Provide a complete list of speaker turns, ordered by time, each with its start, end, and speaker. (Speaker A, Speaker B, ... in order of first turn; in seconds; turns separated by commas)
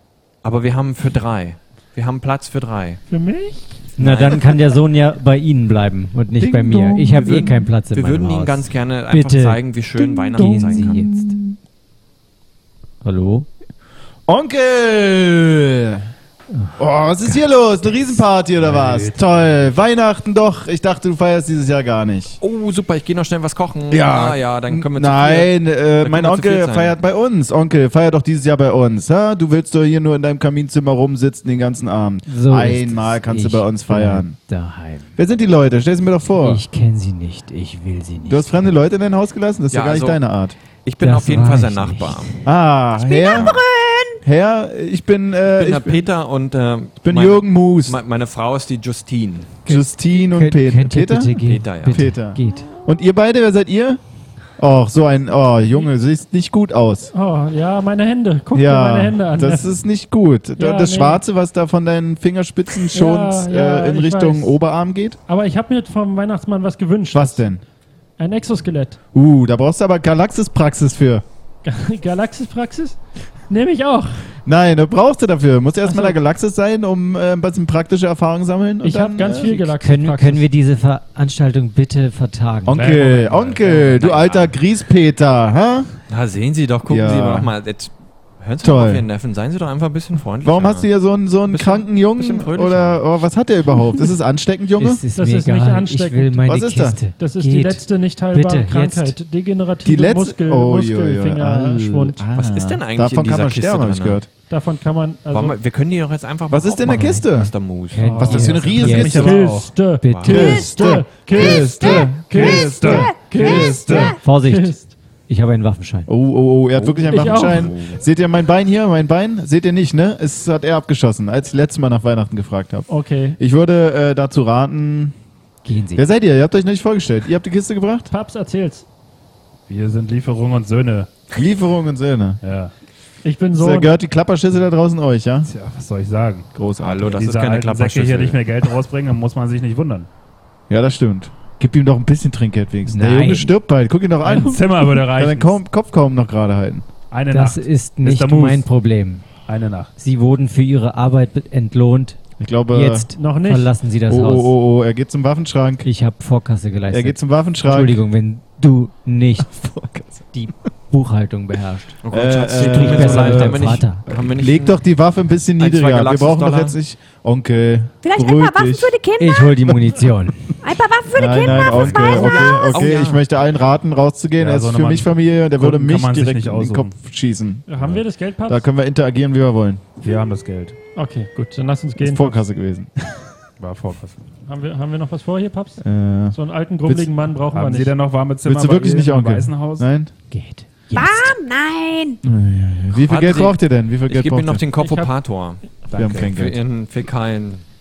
Speaker A: 0.4-3.0, Speaker B: 3.1-3.8, Speaker A: 4.0-4.7, Speaker C: 4.0-11.5, Speaker D: 6.4-7.6, Speaker A: 7.2-11.2, Speaker D: 10.4-10.9, Speaker C: 13.0-13.5, Speaker D: 14.3-16.1, Speaker D: 16.8-22.4, Speaker E: 18.6-19.6, Speaker A: 22.4-27.0, Speaker D: 23.9-34.4, Speaker C: 32.3-35.2, Speaker D: 35.2-36.6, Speaker C: 36.3-38.7, Speaker D: 38.3-40.6, Speaker A: 39.7-40.2, Speaker A: 40.8-42.3, Speaker C: 41.0-42.5, Speaker D: 42.5-43.6, Speaker F: 43.0-44.2, Speaker D: 44.2-46.1, Speaker A: 45.5-49.6, Speaker D: 47.0-48.0, Speaker D: 49.7-54.0, Speaker C: 49.7-52.7, Speaker A: 51.4-52.1, Speaker D: 54.6-57.1, Speaker B: 57.1-59.7, Speaker D: 58.5-65.2, Speaker B: 60.6-61.2, Speaker B: 62.9-64.6, Speaker B: 65.3-67.5, Speaker D: 67.1-67.6, Speaker B: 68.2-69.0, Speaker D: 69.1-71.2, Speaker B: 71.7-73.0, Speaker B: 73.5-74.2, Speaker D: 74.5-79.5, Speaker B: 75.9-76.2, Speaker B: 78.8-80.5, Speaker C: 79.4-83.1, Speaker D: 82.7-86.0, Speaker E: 82.8-83.7, Speaker A: 83.7-84.5, Speaker A: 86.1-90.9, Speaker D: 86.9-87.5, Speaker D: 88.6-89.1, Speaker D: 90.4-95.0, Speaker A: 91.5-93.3, Speaker C: 94.8-99.2, Speaker B: 95.2-96.4, Speaker D: 96.5-97.0, Speaker B: 97.2-102.2, Speaker D: 99.8-104.3, Speaker A: 102.4-104.2, Speaker B: 104.5-105.6, Speaker A: 105.3-108.2, Speaker D: 106.5-107.5, Speaker C: 106.8-107.3, Speaker C: 107.9-109.5, Speaker B: 108.0-114.9, Speaker D: 108.2-109.4, Speaker E: 108.4-109.7, Speaker C: 110.0-110.7, Speaker A: 110.1-110.5, Speaker D: 110.2-114.1, Speaker F: 110.4-114.2, Speaker E: 111.8-114.2, Speaker C: 114.2-116.1, Speaker D: 116.1-122.9, Speaker A: 116.8-117.9, Speaker B: 117.1-117.7, Speaker B: 122.9-123.4, Speaker D: 123.4-125.2, Speaker C: 125.7-126.1, Speaker D: 126.0-128.1, Speaker B: 128.1-128.9, Speaker E: 129.7-131.1, Speaker D: 131.3-132.4, Speaker E: 132.4-132.7, Speaker B: 133.2-134.0, Speaker D: 133.6-135.5, Speaker E: 135.5-136.5, Speaker D: 136.6-137.2, Speaker A: 136.8-138.4, Speaker E: 137.1-140.1, Speaker D: 140.7-146.9, Speaker C: 142.9-143.5, Speaker E: 144.2-145.6, Speaker E: 147.1-148.6, Speaker C: 147.3-149.3, Speaker E: 149.5-149.9, Speaker C: 150.0-152.2, Speaker D: 152.4-153.1, Speaker C: 152.7-154.5, Speaker B: 153.2-153.7, Speaker D: 154.1-155.9, Speaker C: 155.8-159.5, Speaker D: 156.9-158.0, Speaker D: 159.4-160.4, Speaker C: 160.3-162.0, Speaker A: 162.0-164.8, Speaker D: 162.1-169.0, Speaker C: 162.6-164.1, Speaker A: 165.6-166.8, Speaker F: 168.0-169.6, Speaker C: 169.2-170.6, Speaker D: 169.7-170.1, Speaker F: 170.6-172.9, Speaker D: 171.1-177.7, Speaker A: 171.5-173.2, Speaker E: 174.4-176.9, Speaker B: 177.7-178.7, Speaker D: 178.5-179.9, Speaker E: 180.0-180.8, Speaker B: 181.0-182.4, Speaker D: 182.0-183.3, Speaker E: 183.6-184.2, Speaker B: 184.5-187.9, Speaker D: 185.8-186.4, Speaker E: 187.5-189.9, Speaker D: 188.4-190.1, Speaker C: 190.3-191.3, Speaker F: 190.9-192.2, Speaker D: 192.2-194.6, Speaker A: 192.9-197.6, Speaker B: 194.8-195.1, Speaker E: 195.9-196.3, Speaker D: 195.9-196.6